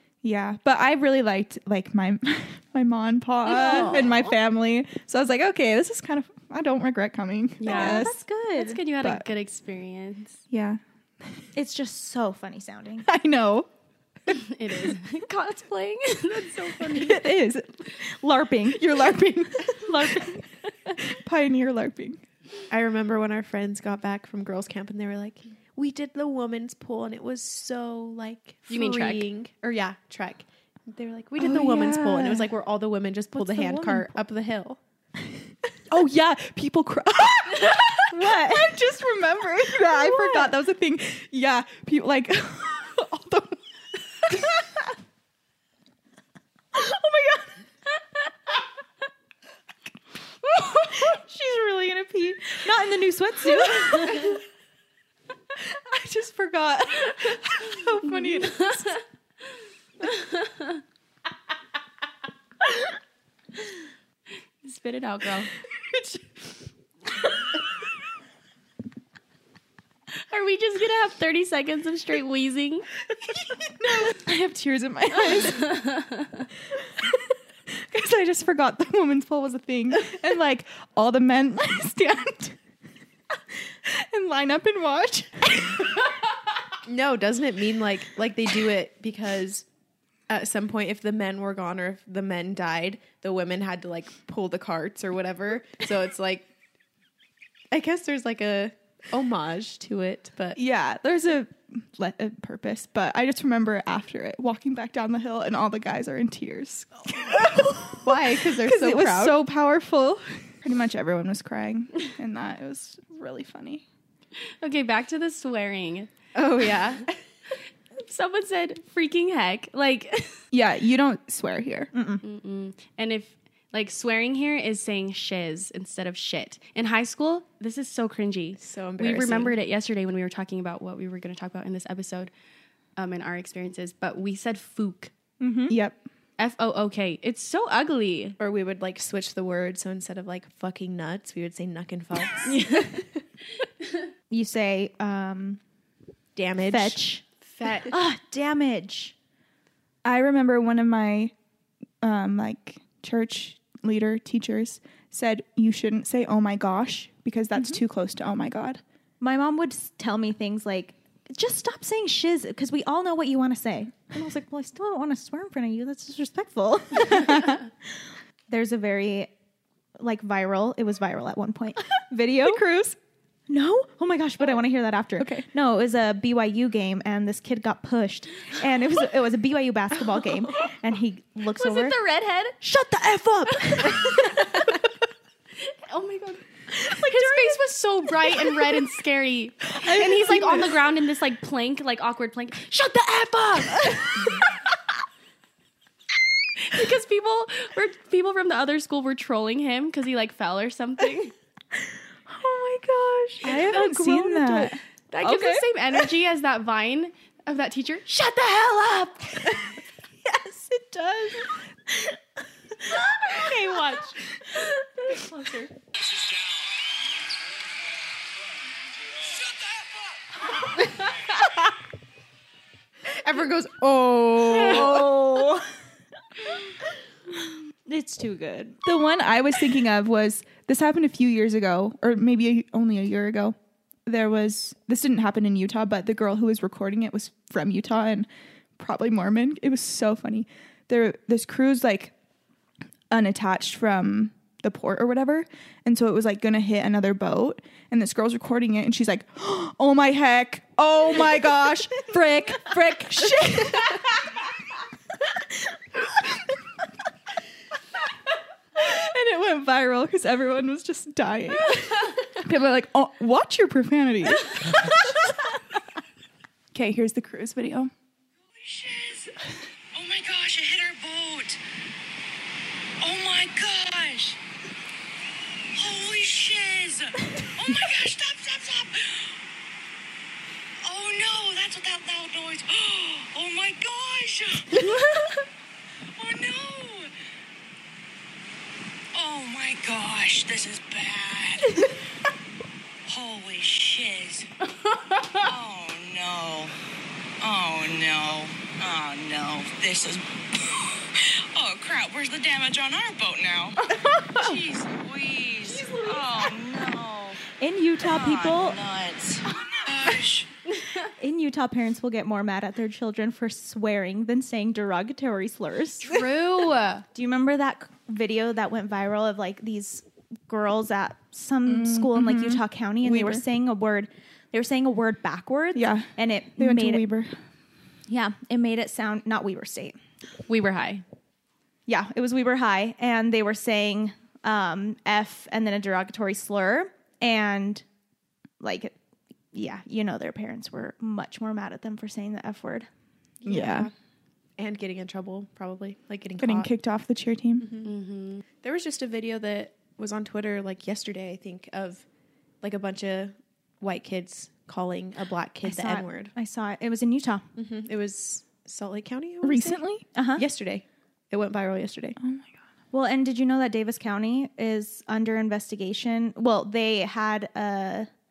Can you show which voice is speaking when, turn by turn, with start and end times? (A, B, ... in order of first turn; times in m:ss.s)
0:00.2-0:08.2 A
0:03.4-0:04.3 B
0:07.6-0:10.4 C
0:07.6-0:08.8 B
0:09.0-0:09.2 A
0:10.5-0:10.8 A
0:11.5-0:13.1 B
0:13.0-0:13.7 A
0:14.2-0:14.9 A
0:14.3-0:17.4 C
0:16.8-0:18.1 A
0:18.2-0:19.1 B
0:18.6-0:22.2 A
0:19.8-0:20.4 B
0:22.7-0:34.8 D
0:28.7-0:29.3 C
0:31.4-0:32.5 A
0:33.3-0:34.1 B
0:35.9-0:43.6 A
0:38.1-0:38.8 B
0:40.0-0:40.2 B
0:44.2-0:44.8 A
0:46.7-0:47.4 A
0:51.0-0:54.4 B
0:53.6-0:54.3 A
0:55.6-0:59.0 A
0:58.2-0:59.0 C
1:00.1-1:00.8 C
1:04.6-1:05.5 C
1:05.9-1:06.2 A
1:10.3-1:12.9 C
1:13.4-1:15.8 A
1:17.7-1:22.6 A
1:23.8-1:26.1 A
1:26.8-1:29.6 D
1:30.3-1:36.5 D
1:37.7-1:40.6 D
1:40.5-1:53.8 A
1:47.9-1:49.4 D
1:54.6-1:56.1 C
1:56.3-1:57.2 D
1:56.7-1:56.9 C
1:58.0-2:00.4 C
2:00.5-2:01.9 A
2:01.9-2:02.2 B
2:02.2-2:12.3 C
2:08.6-2:09.5 D
2:13.0-2:15.1 C
2:15.4-2:15.7 B
2:15.7-2:16.0 A
2:16.4-2:18.4 C
2:18.4-2:22.9 D
2:22.4-2:23.1 C
2:24.3-2:25.6 B
2:26.3-2:27.0 D
2:26.6-2:27.2 B
2:27.4-2:27.9 C
2:27.9-2:29.1 B
2:30.0-2:31.3 A
2:32.0-2:38.8 A
2:39.2-2:47.6 B
2:47.1-2:47.6 A
2:48.5-2:49.3 B
2:50.0-2:52.6 B
2:52.4-2:53.0 A
2:53.5-3:02.0 B
2:55.2-2:55.5 A
3:01.5-3:02.6 C
3:02.6-3:04.5 B
3:03.6-3:04.3 C
3:05.6-3:14.5 C
3:07.2-3:07.5 B
3:09.8-3:10.7 A
3:16.6-3:21.3 C
3:22.3-3:25.6 A
3:23.4-3:24.7 B
3:23.5-3:23.8 C
3:25.1-3:29.4 C
3:30.3-3:31.4 A
3:30.4-3:31.3 B
3:32.9-3:34.2 B
3:35.1-3:35.7 B
3:36.1-3:36.6 E
3:43.1-3:45.2 D
3:44.8-3:45.6 A
3:44.8-3:45.6 B
3:47.9-3:48.8 B
3:48.8-4:02.1 A
4:03.1-4:14.4 A
4:15.2-4:16.6 A
4:18.8-4:25.5 A
4:26.7-4:27.9 A
4:28.6-4:29.4 E
4:29.9-4:31.6 E
4:33.0-4:34.4 E
4:35.7-4:39.4 E
4:40.8-4:45.1 E
4:44.8-4:45.3 C
4:46.2-4:47.1 E
4:49.1-4:51.9 E
4:53.0-4:54.5 E
4:54.9-4:55.4 C
4:55.4-4:56.7 E
4:57.4-5:07.4 E
5:07.6-5:08.8 B
5:08.0-5:10.5 E
5:11.2-5:16.2 B
5:16.0-5:17.0 C
5:17.1-5:27.0 B
5:21.6-5:23.4 A
5:25.7-5:27.4 A
5:28.1-5:30.0 B
5:30.5-5:31.0 C
5:31.9-5:37.8 B
5:38.6-5:38.9 B
5:39.5-5:42.9 B
5:43.4-5:43.9 D
5:43.4-5:43.9 A
5:44.6-5:46.7 D
5:46.4-5:47.7 A
5:47.6-5:47.9 D
5:47.8-5:48.4 C
5:48.5-5:52.0 D
5:52.6-5:56.3 D
5:55.6-5:57.4 B
5:57.6-5:59.8 D
5:59.4-6:00.0 A
6:00.1-6:00.4 B
6:00.4-6:02.2 D
6:02.2-6:02.5 A
6:02.9-6:08.1 B